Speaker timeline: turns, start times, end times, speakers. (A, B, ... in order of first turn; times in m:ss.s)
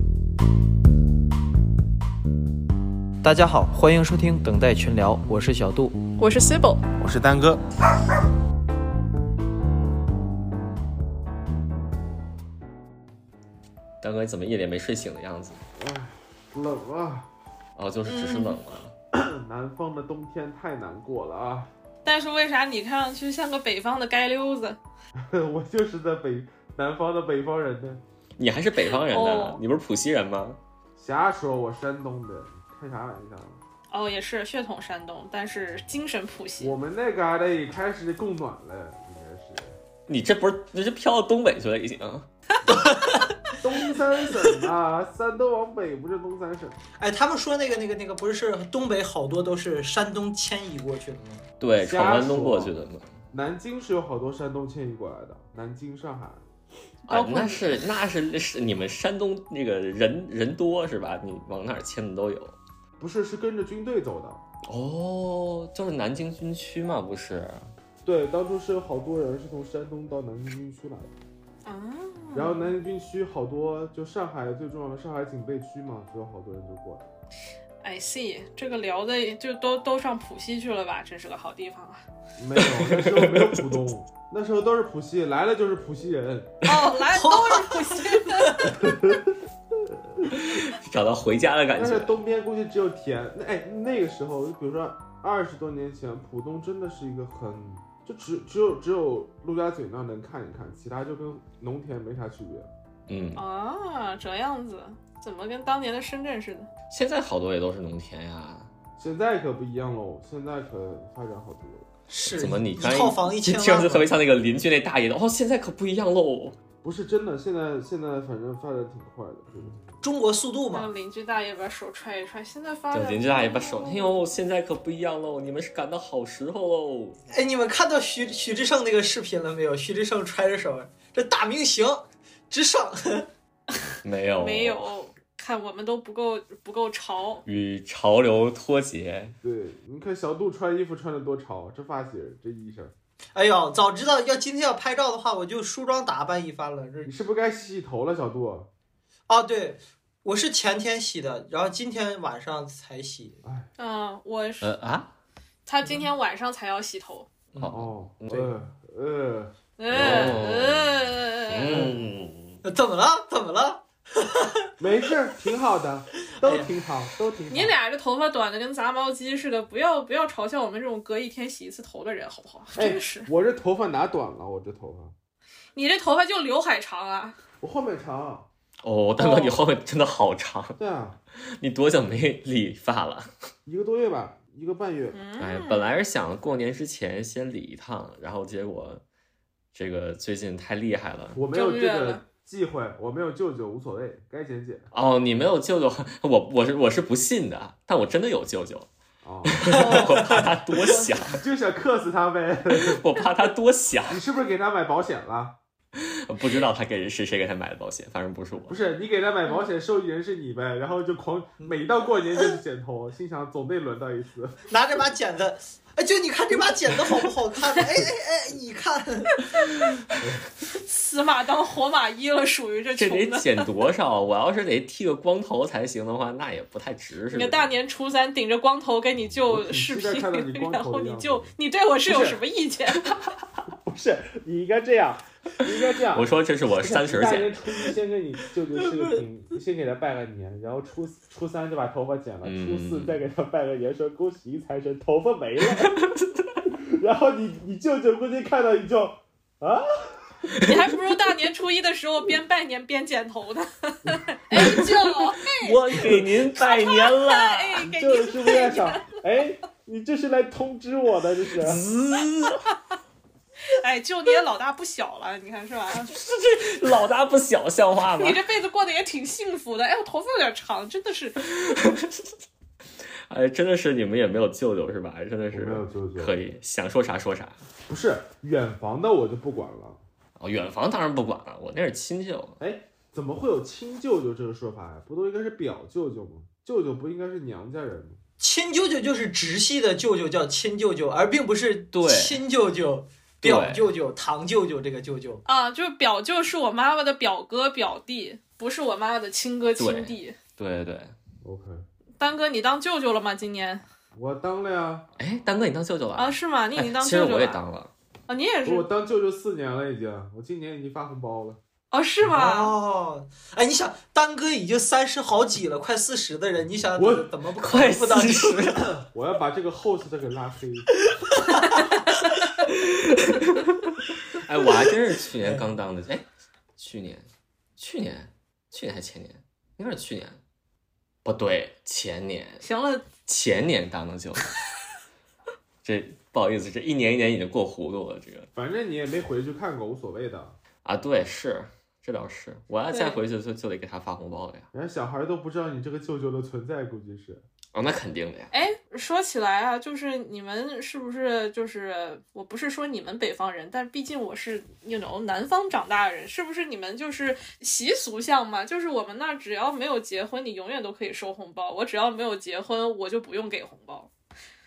0:03.2-0:06.0 A
0:06.2-0:06.8 B
0:07.0-0:07.6 C
0:14.0-0:15.6 D
0:15.8-0:17.3 C
0:17.8-0:18.9 D
0:18.1-0:18.6 B
0:19.1-0:21.7 C
0:22.0-0:24.8 B
0:25.2-0:28.0 C
0:28.4-0:30.6 D
0:28.9-0:29.6 B
0:31.0-0:33.6 C
0:33.9-0:36.7 B
0:36.6-0:39.8 C
0:40.1-0:42.3 D
0:42.7-0:43.3 E
0:43.6-0:46.8 C
0:47.0-0:51.4 E
0:51.6-0:53.2 D
0:51.8-0:52.7 C
0:53.3-0:56.5 C
0:57.1-0:57.8 B
0:57.1-1:02.6 D
1:03.0-1:04.4 C
1:04.7-1:07.7 D
1:08.0-1:11.1 C
1:11.6-1:12.7 B
1:12.3-1:17.1 C
1:17.8-1:22.0 B
1:22.4-1:26.6 C
1:22.6-1:23.9 D
1:26.6-1:28.8 B
1:27.1-1:28.8 E
1:28.7-1:30.3 C
1:30.3-1:32.2 D
1:31.8-1:42.7 C
1:43.1-1:43.4 D
1:43.4-1:46.7 B
1:46.9-1:48.7 D
1:49.0-1:51.9 C
1:52.1-1:54.1 E
1:52.3-1:56.6 D
1:56.8-1:59.8 C
2:00.0-2:00.9 E
2:00.7-2:04.2 B
2:02.9-2:07.2 D
2:07.3-2:13.3 E
2:14.0-2:14.8 D
2:14.4-2:17.4 B
2:17.4-2:19.4 D
2:19.4-2:22.9 C
2:23.4-2:27.2 E
2:27.0-2:28.7 C
2:29.3-2:33.4 E
2:33.4-2:33.7 C
2:33.8-2:34.7 B
2:34.6-2:35.2 D
2:35.7-2:37.3 B
2:37.6-2:38.5 D
2:37.7-2:40.4 C
2:39.8-2:41.9 B
2:39.9-2:42.6 D
2:42.6-2:44.7 E
2:44.8-2:47.8 C
2:46.3-2:46.7 E
2:47.5-2:53.3 B
2:52.8-2:55.1 C
2:55.8-2:57.4 B
2:57.6-2:58.5 C
2:58.8-3:00.8 D
2:59.2-2:59.6 B
3:00.8-3:01.2 C
3:01.6-3:03.3 D
3:03.7-3:05.2 C
3:05.1-3:06.0 B
3:05.4-3:09.0 D
3:09.7-3:11.4 D
3:11.3-3:14.9 C
3:11.5-3:12.2 B
3:14.9-3:18.9 D
3:19.2-3:20.4 C
3:19.5-3:21.4 D
3:19.7-3:20.4 B
3:21.3-3:23.0 C
3:22.7-3:24.2 D
3:24.1-3:25.6 C
3:26.0-3:28.8 D
3:28.7-3:34.6 C
3:34.7-3:39.4 E
3:40.2-3:40.5 C
3:40.7-3:43.6 B
3:42.9-3:47.7 D
3:47.3-3:53.1 B
3:49.3-3:51.5 C
3:52.1-3:52.4 C
3:53.8-4:06.0 C
3:56.1-3:57.6 D
3:59.0-3:59.2 E
4:02.4-4:03.2 D
4:06.1-4:06.4 D
4:06.7-4:10.5 C
4:10.6-4:19.2 B
4:14.6-4:14.9 D
4:15.6-4:17.9 D
4:17.8-4:21.8 C
4:21.6-4:22.6 D
4:23.7-4:26.1 B
4:26.1-4:28.4 D
4:28.2-4:31.4 B
4:31.5-4:32.3 D
4:33.3-4:37.6 D
4:35.5-4:36.4 C
4:37.9-4:40.0 C
4:40.4-4:42.6 D
4:42.6-4:48.2 C
4:48.4-4:55.4 E
4:51.9-4:52.4 D
4:53.4-4:53.9 D
4:55.5-5:00.4 B
4:59.8-5:01.1 D
5:01.4-5:01.8 C
5:02.2-5:03.8 B
5:04.2-5:05.1 C
5:05.2-5:07.9 D
5:06.2-5:07.6 B
5:08.3-5:08.9 B
5:08.6-5:11.6 C
5:11.9-5:12.8 B
5:12.2-5:18.8 E
5:17.0-5:17.3 C
5:17.6-5:18.8 D
5:18.8-5:21.1 C
5:21.4-5:21.8 E
5:22.6-5:26.2 D
5:26.8-5:30.4 D
5:31.2-5:32.6 D
5:32.6-5:33.1 B
5:33.3-5:34.6 D
5:35.8-5:38.5 D
5:38.6-5:40.6 C
5:40.8-5:44.7 D
5:42.9-5:43.2 B
5:44.7-5:47.4 C
5:47.8-5:48.5 D
5:48.5-6:04.1 B